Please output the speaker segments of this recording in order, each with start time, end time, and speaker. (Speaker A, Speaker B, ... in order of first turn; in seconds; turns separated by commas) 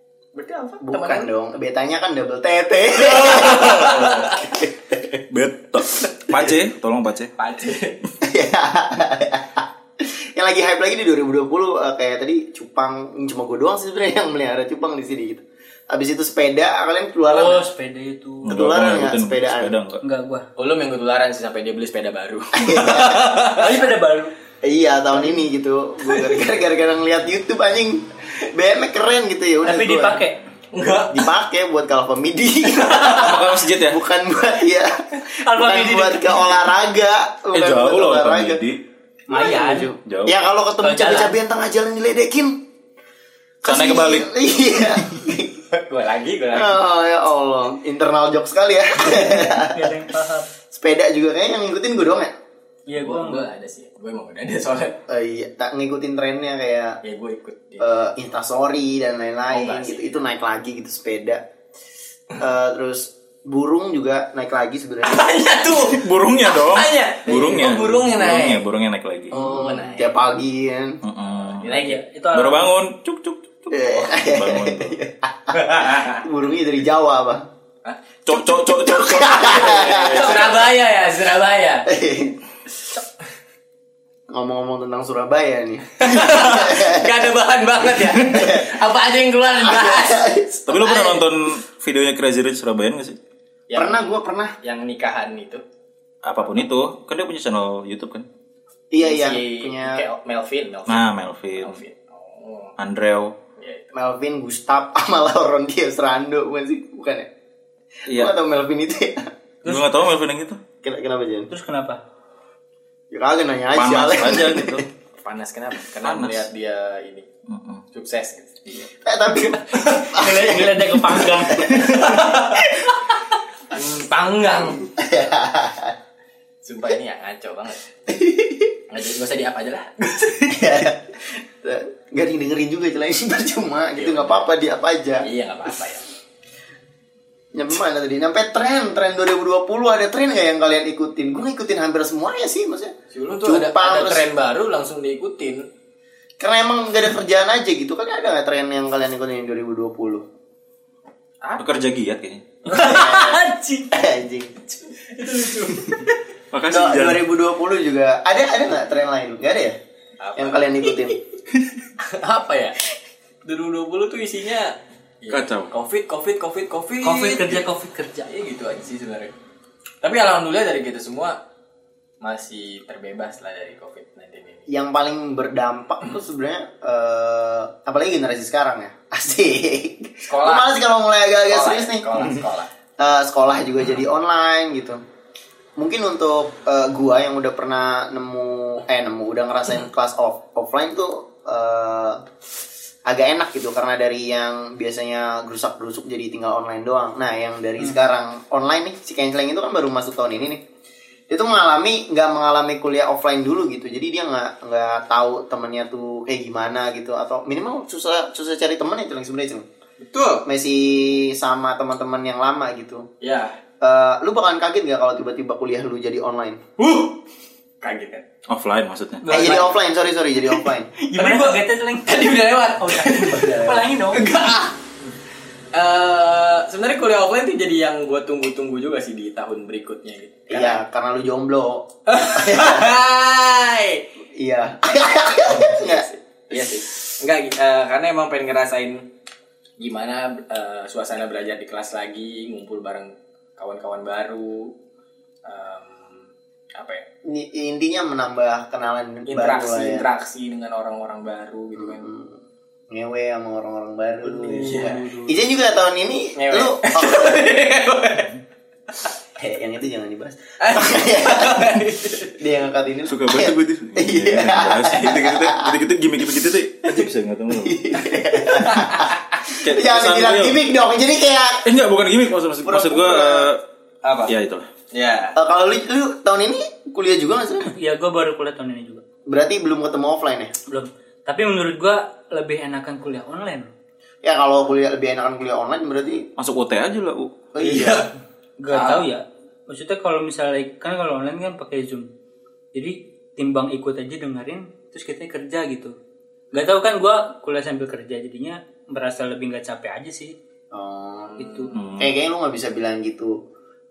Speaker A: 0.3-1.3, Speaker B: 0.8-5.2, Speaker A: 3.2-4.3, Speaker C: 3.3-4.4, Speaker C: 5.3-7.3, Speaker A: 7.4-8.0, Speaker B: 8.2-17.6, Speaker D: 17.3-18.6, Speaker B: 18.4-19.8, Speaker C: 18.4-20.0, Speaker D: 20.0-20.5, Speaker A: 20.6-23.8, Speaker B: 22.5-23.4, Speaker D: 23.5-24.3, Speaker B: 24.6-30.2, Speaker D: 29.6-30.4, Speaker A: 30.7-31.3, Speaker B: 31.1-38.6, Speaker A: 32.9-33.3, Speaker C: 33.0-34.0, Speaker D: 35.2-36.5, Speaker C: 37.5-38.8, Speaker D: 39.3-39.9, Speaker B: 39.3-42.6, Speaker C: 40.1-40.4, Speaker D: 40.8-41.4, Speaker B: 43.6-45.6, Speaker C: 43.6-44.3, Speaker A: 45.7-46.8, Speaker B: 46.5-50.0, Speaker D: 49.6-50.5, Speaker B: 50.7-52.3, Speaker D: 52.9-53.5, Speaker A: 52.9-55.0, Speaker B: 55.1-57.0, Speaker A: 57.0-58.0, Speaker B: 57.8-61.4, Speaker A: 59.5-60.2, Speaker B: 62.4-65.3, Speaker A: 65.0-68.7, Speaker C: 65.8-69.4, Speaker A: 69.3-70.2, Speaker B: 69.3-71.0, Speaker C: 71.0-75.0, Speaker A: 71.4-72.0, Speaker D: 71.7-72.7, Speaker B: 73.7-77.5, Speaker A: 75.5-76.2, Speaker C: 78.3-80.1, Speaker B: 78.6-80.7, Speaker A: 79.4-81.9, Speaker B: 81.9-82.4, Speaker B: 84.3-87.2, Speaker A: 86.0-91.3, Speaker B: 88.2-88.7, Speaker B: 89.6-90.7, Speaker C: 90.7-93.2, Speaker A: 93.7-95.6, Speaker B: 93.8-94.5, Speaker C: 96.2-98.3, Speaker B: 98.9-100.0, Speaker A: 99.0-102.8, Speaker C: 100.9-101.8, Speaker C: 102.8-103.4, Speaker A: 103.6-103.9, Speaker B: 103.9-107.3, Speaker B: 108.1-109.3, Speaker C: 108.1-108.3, Speaker D: 109.6-109.9, Speaker C: 109.7-110.6, Speaker B: 110.8-111.5, Speaker D: 111.5-112.0, Speaker B: 113.1-114.9, Speaker C: 113.7-114.9, Speaker A: 115.2-117.3, Speaker C: 116.0-116.5, Speaker C: 117.5-117.8, Speaker A: 117.9-118.9, Speaker B: 119.0-122.9, Speaker A: 119.7-120.0, Speaker D: 120.1-122.1, Speaker A: 121.8-122.7, Speaker A: 123.7-124.9, Speaker B: 124.9-126.0, Speaker A: 126.6-127.8, Speaker B: 128.1-128.7, Speaker A: 128.9-130.8, Speaker B: 130.5-135.3, Speaker A: 133.9-134.5, Speaker A: 135.2-136.1, Speaker B: 137.5-142.9, Speaker A: 143.1-145.7, Speaker B: 143.4-144.3, Speaker B: 146.4-150.2, Speaker A: 151.4-151.7, Speaker C: 151.6-152.6, Speaker D: 152.7-153.9, Speaker B: 152.7-154.7, Speaker A: 155.0-156.1, Speaker C: 156.5-157.2, Speaker B: 156.7-159.8, Speaker A: 160.2-161.2, Speaker B: 160.4-161.2, Speaker A: 162.0-162.8, Speaker A: 163.4-167.7, Speaker C: 165.3-165.7, Speaker D: 167.0-168.3, Speaker A: 168.3-169.3, Speaker A: 170.0-171.4, Speaker A: 172.2-174.7, Speaker B: 174.7-182.4, Speaker A: 180.3-180.7, Speaker A: 181.5-182.7, Speaker B: 183.0-185.0, Speaker B: 185.8-192.2, Speaker B: 193.1-200.6, Speaker B: 201.3-209.7, Speaker A: 210.0-210.5, Speaker B: 210.4-213.1, Speaker A: 213.2-213.6, Speaker B: 213.8-216.6, Speaker A: 216.8-217.2, Speaker A: 217.8-218.2, Speaker C: 218.5-219.3, Speaker D: 219.2-219.7, Speaker B: 219.3-220.9, Speaker D: 221.0-224.2, Speaker A: 221.2-223.6, Speaker B: 223.2-223.9, Speaker A: 224.1-224.9, Speaker A: 225.7-230.8, Speaker B: 230.5-232.9, Speaker A: 232.1-234.1, Speaker B: 234.3-236.7, Speaker A: 235.4-239.0, Speaker A: 239.8-244.7, Speaker A: 245.4-247.1, Speaker B: 247.2-250.1, Speaker A: 249.3-252.1, Speaker B: 251.8-252.4, Speaker B: 252.9-257.5, Speaker D: 254.2-255.4, Speaker A: 254.6-255.0, Speaker A: 256.4-258.4, Speaker B: 259.4-265.8, Speaker A: 260.6-262.4, Speaker C: 263.1-268.1, Speaker B: 267.5-269.1, Speaker A: 268.5-269.4, Speaker C: 269.6-270.6, Speaker B: 269.6-271.7, Speaker C: 271.6-273.6, Speaker B: 272.6-273.5, Speaker A: 274.0-274.3, Speaker C: 274.3-274.7, Speaker A: 274.9-275.4, Speaker B: 275.4-277.7, Speaker D: 277.7-279.0, Speaker B: 279.3-280.5, Speaker D: 280.7-283.7, Speaker B: 284.2-286.3, Speaker C: 286.4-287.4, Speaker B: 287.5-288.1, Speaker A: 287.6-288.1, Speaker D: 288.6-292.1, Speaker A: 288.7-289.1, Speaker D: 292.7-295.9, Speaker D: 296.5-300.3, Speaker B: 300.7-303.4, Speaker D: 301.4-301.7, Speaker C: 301.7-302.1